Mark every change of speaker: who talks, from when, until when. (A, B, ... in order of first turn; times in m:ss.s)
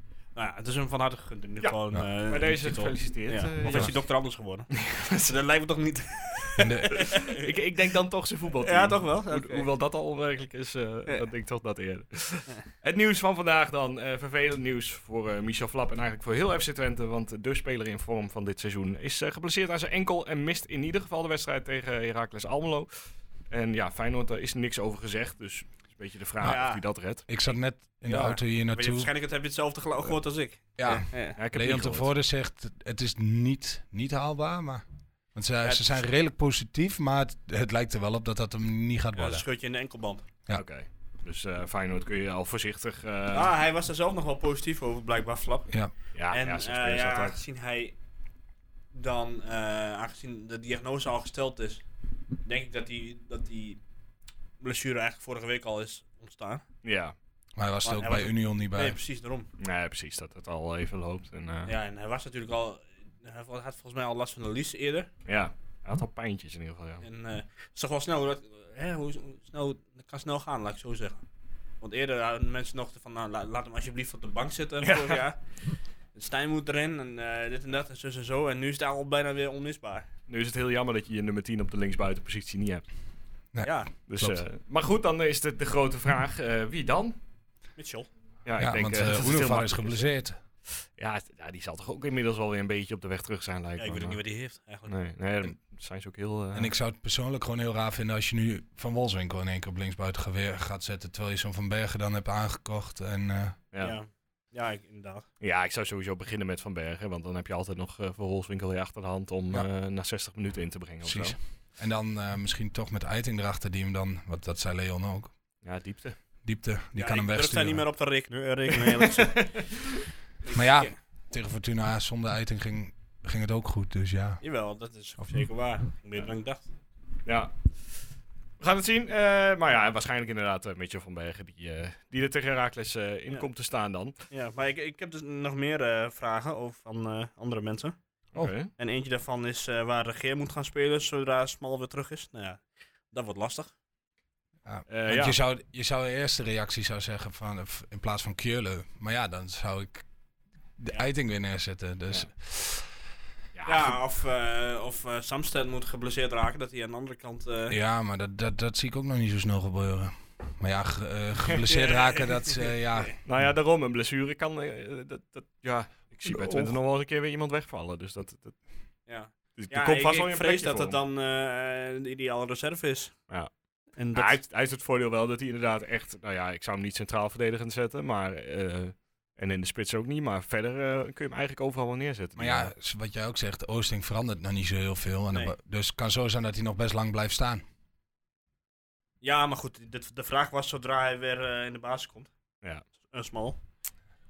0:00.4-0:07.5 A
0:01.6-0:04.0 B
0:04.7-0:05.3 B
0:06.6-0:07.2 C
0:06.8-0:27.2 B
0:08.6-0:09.7 A
0:26.4-0:26.8 A
0:27.3-0:29.1 C
0:28.0-0:31.4 A
0:30.8-0:39.4 C
0:31.4-0:32.1 B
0:35.6-0:36.0 A
0:39.2-0:40.2 A
0:40.5-0:43.5 B
0:43.3-0:45.7 A
0:46.2-0:47.4 B
0:46.3-0:48.0 A
0:48.9-0:51.8 A
0:52.4-0:53.8 A
0:54.6-0:56.6 A
0:56.8-0:57.2 B
0:57.6-0:59.0 C
0:57.8-0:59.5 A
0:59.6-1:01.7 B
1:01.7-1:05.1 A
1:05.3-1:07.0 B
1:07.0-1:11.2 A
1:11.8-1:15.4 A
1:14.8-1:15.2 B
1:16.1-1:20.1 A
1:20.3-1:22.8 B
1:23.5-1:24.4 C
1:23.6-1:23.9 A
1:24.1-1:27.2 B
1:27.8-1:28.1 A
1:28.4-1:30.1 B
1:28.6-1:30.4 C
1:31.0-1:34.2 B
1:33.8-1:34.9 A
1:34.9-1:36.7 B
1:36.5-1:43.6 C
1:43.8-1:45.3 A
1:45.4-1:51.4 B
1:51.0-1:55.3 C
1:55.6-1:56.2 B
1:56.4-1:57.8 C
1:57.0-1:59.8 A
1:59.2-2:00.0 B
2:00.4-2:00.9 A
2:00.5-2:04.4 C
2:04.4-2:06.6 A
2:07.2-2:07.6 B
2:08.6-2:14.2 B
2:14.3-2:18.0 A
2:18.3-2:18.7 B
2:18.7-2:23.7 A
2:24.6-2:30.0 C
2:24.9-2:25.4 B
2:30.8-2:32.9 C
2:33.5-2:34.0 B
2:33.7-2:37.8 A
2:37.7-2:43.2 C
2:41.5-2:43.1 A
2:43.2-2:48.6 B
2:46.3-2:46.7 A
2:49.1-2:53.2 A
2:49.6-2:51.0 B
2:54.0-2:54.4 A
2:54.1-3:02.7 B
3:02.4-3:07.6 C
3:09.2-3:12.3 A
3:13.0-3:13.6 A